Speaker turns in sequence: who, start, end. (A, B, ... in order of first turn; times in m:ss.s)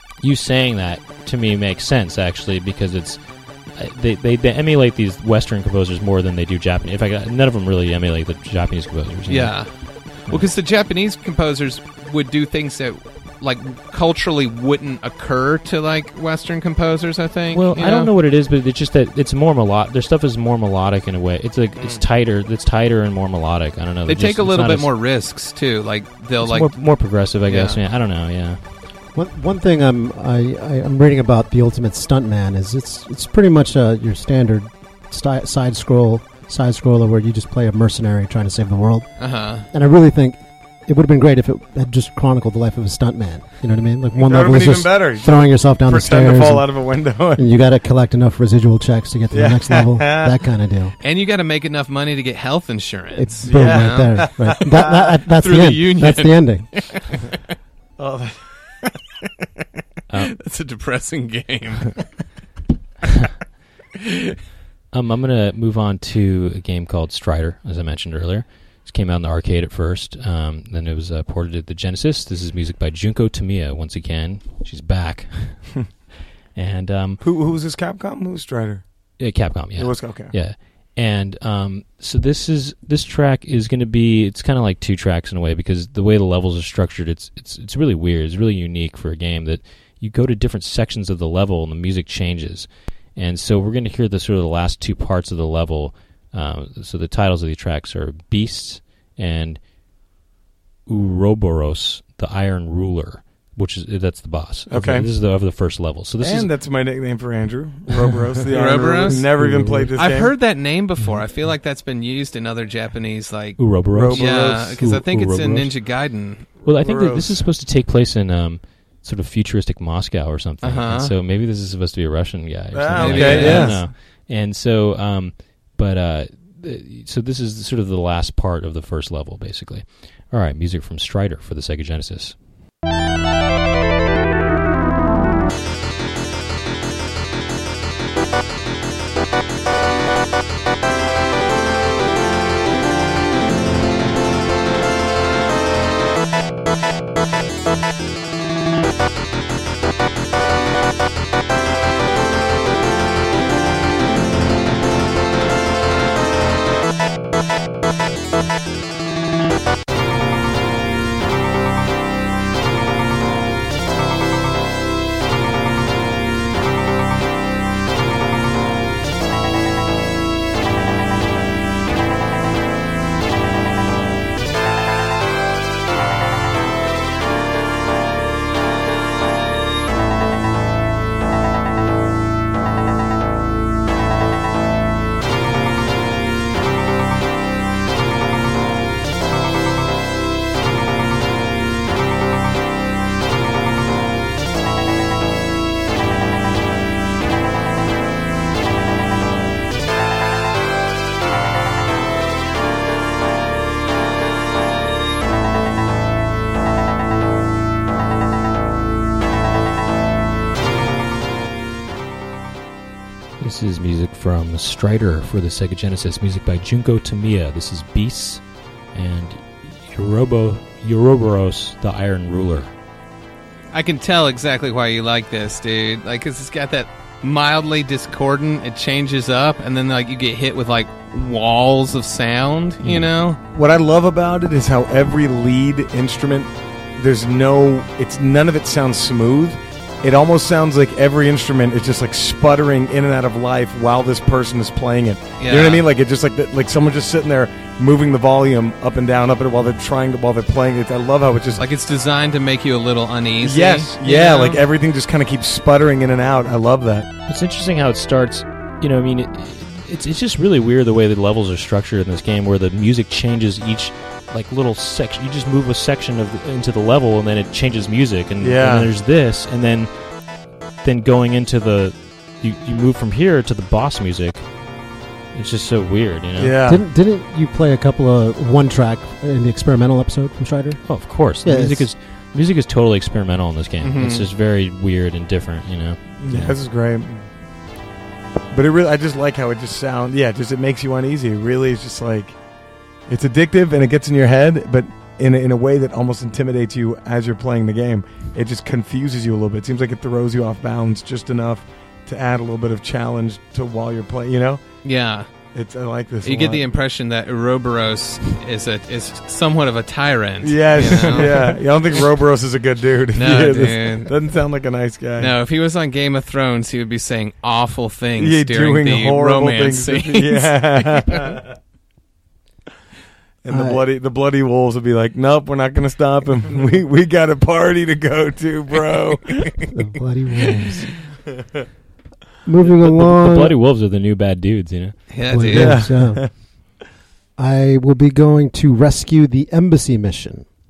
0:00.2-0:10.5 A
0:09.3-0:18.1 B
0:17.5-0:24.9 A
0:24.1-0:27.8 B
0:26.4-0:28.6 A
0:29.1-0:50.9 C
0:39.2-0:39.6 B
0:44.2-0:47.4 D
0:49.3-0:50.4 D
0:51.0-0:57.3 B
0:53.1-0:57.1 C
0:53.4-0:55.0 D
0:58.0-0:58.6 D
1:00.1-1:00.3 A
1:00.2-1:02.1 B
1:04.9-1:15.9 A
1:16.5-1:17.2 A
1:17.2-1:18.8 D
1:19.2-1:39.6 A
1:19.8-1:20.3 D
1:40.9-1:46.5 A
1:44.7-1:45.1 D
1:46.2-1:50.3 D
1:48.5-1:49.3 B
1:49.2-1:49.9 C
1:49.9-1:56.5 B
1:53.6-1:55.8 A
1:53.9-1:54.8 D
1:56.6-2:12.4 A
1:56.6-1:57.5 D
2:00.6-2:01.1 B
2:02.7-2:03.9 D
2:02.9-2:03.9 B
3:33.4-3:42.7 A
3:43.7-3:53.4 B
3:52.8-3:53.1 A
3:53.5-4:11.6 D
4:05.4-4:05.8 B
4:11.6-4:14.7 B
4:13.4-4:17.1 D
4:17.3-4:30.1 A
4:28.4-4:28.9 D
4:30.8-4:34.5 A
4:35.3-4:36.6 A
4:36.4-4:36.8 D
4:36.6-4:41.9 C
4:40.8-4:46.6 A
4:43.8-4:44.3 B
4:46.2-4:47.3 D
4:48.5-4:52.4 D
4:53.1-5:04.7 D
5:04.8-5:05.3 B
5:05.5-5:06.6 D
5:06.2-5:12.1 B
5:10.4-5:15.3 D
5:13.1-5:14.1 B
5:15.2-5:21.4 B
5:18.2-5:21.5 D
5:23.4-5:29.5 D
5:23.5-5:23.8 C
5:29.7-5:30.9 C
5:32.4-5:33.6 C
5:32.8-5:35.0 A
5:35.1-5:36.0 B
5:35.3-5:36.3 C
5:35.5-5:36.3 D
5:37.4-5:40.5 C